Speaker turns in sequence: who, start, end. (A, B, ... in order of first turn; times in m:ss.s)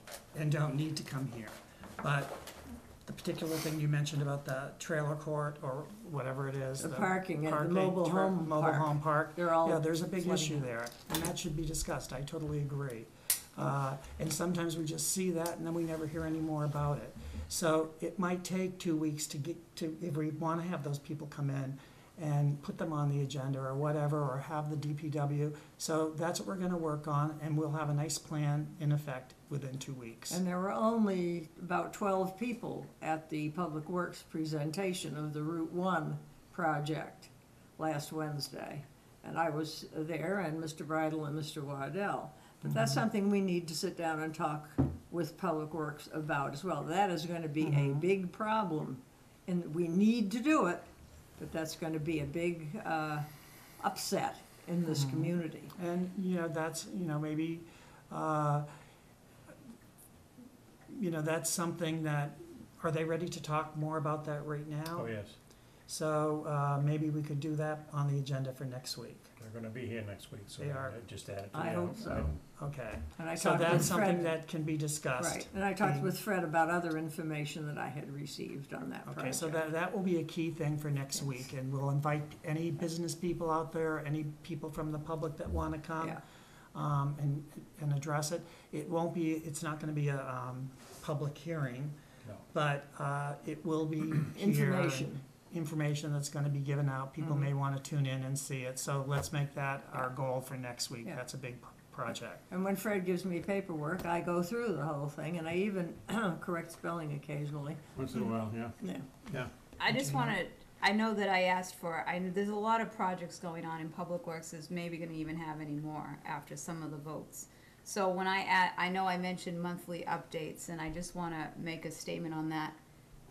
0:00.3-0:30.4 A
0:06.8-0:10.6 B
0:30.3-0:50.8 B
0:42.7-0:43.0 A
0:47.6-0:48.1 A
0:51.4-0:53.3 B
0:53.8-0:55.7 B
0:54.9-0:58.7 A
1:00.9-1:05.2 A
1:04.9-1:05.4 C
1:05.9-1:09.3 A
1:09.4-1:12.5 C
1:10.6-1:11.0 A
1:11.5-1:12.4 B
1:12.6-1:16.1 A
1:13.2-1:14.4 B
1:13.7-1:14.0 C
1:15.2-1:19.6 B
1:19.1-1:26.2 A
1:26.7-1:32.0 A
1:32.5-1:42.4 A
1:34.4-1:35.2 B
1:37.2-1:37.5 B
1:42.5-1:48.3 B
1:48.0-1:49.5 C
1:48.8-1:49.1 B
1:49.8-2:02.8 D
1:49.9-1:50.4 A